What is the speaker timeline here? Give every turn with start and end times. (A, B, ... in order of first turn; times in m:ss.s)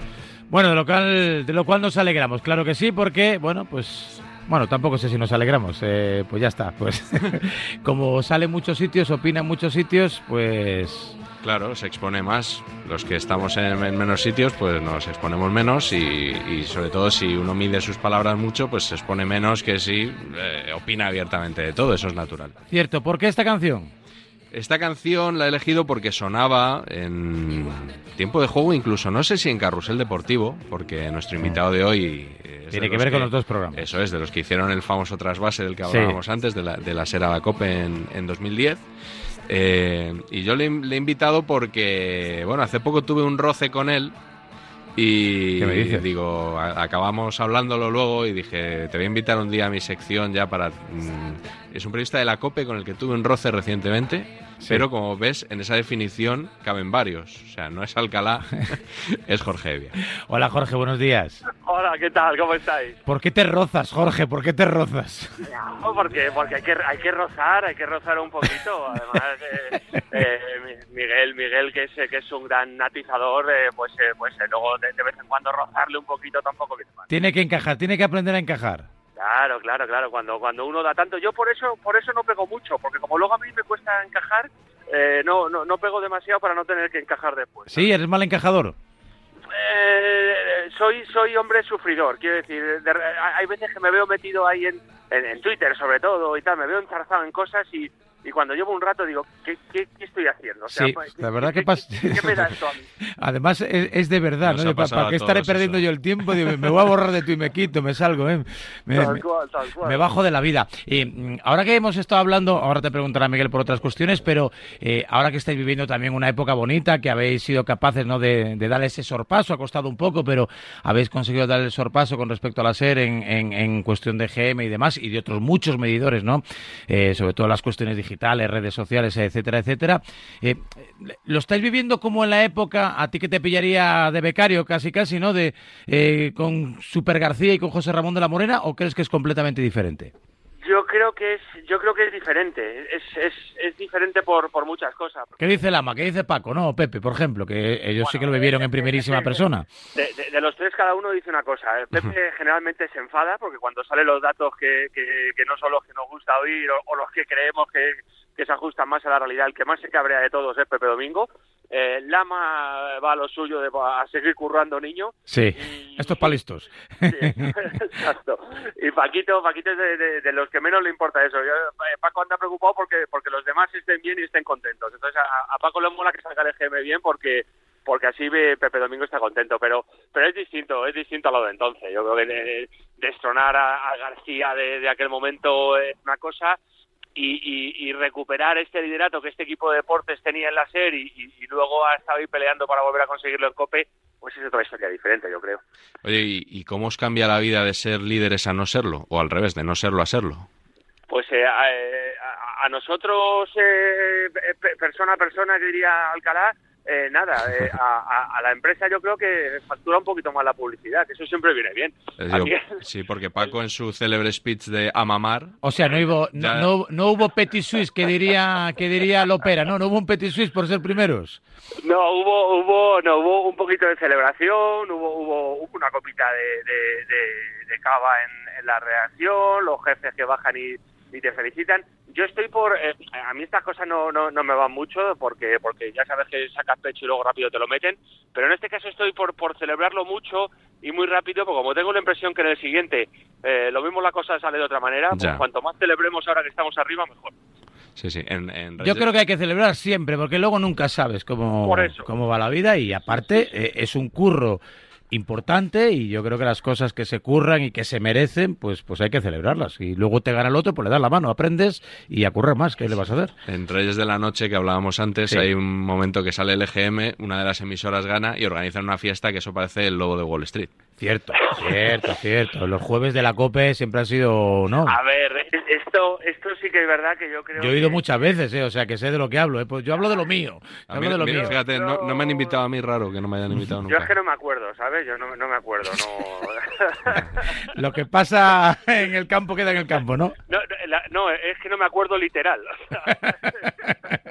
0:00.5-0:11.2 A
0:11.4-0:22.6 B
0:22.7-0:23.9 A
0:24.5-0:38.8 B
0:32.7-0:33.8 A
0:35.9-0:36.2 A
0:39.5-0:44.2 B
0:45.0-0:59.9 B
0:45.6-0:46.0 A
1:00.3-1:01.4 A
1:01.6-1:03.0 C
1:03.1-1:05.3 A
1:05.6-1:17.0 C
1:17.1-1:18.9 A
1:19.2-1:27.9 C
1:27.7-1:28.8 A
1:29.5-1:42.8 C
1:40.7-1:42.3 A
1:43.2-1:49.2 A
1:44.4-1:45.8 B
1:49.0-1:50.0 C
1:49.8-2:20.1 A
2:20.6-2:25.3 C
2:25.4-2:29.7 A
2:28.0-2:29.4 C
2:30.0-2:46.4 C
2:45.3-2:47.5 A
2:47.1-3:06.6 C
3:07.2-3:15.6 C
3:16.0-3:20.5 B
3:21.1-3:32.8 C
3:32.2-3:36.7 B
3:35.6-3:41.4 A
3:41.8-4:07.3 C
4:05.1-4:05.4 B
4:08.0-4:09.1 B
4:08.8-4:23.3 A
4:11.6-4:12.1 C
4:23.5-4:30.7 B
4:31.0-4:35.0 A
4:34.9-4:38.0 C
4:37.6-4:41.6 A
4:40.9-4:44.1 B
4:41.3-4:42.6 C
4:43.9-4:47.2 C
4:47.8-4:50.4 A
4:50.5-4:53.3 C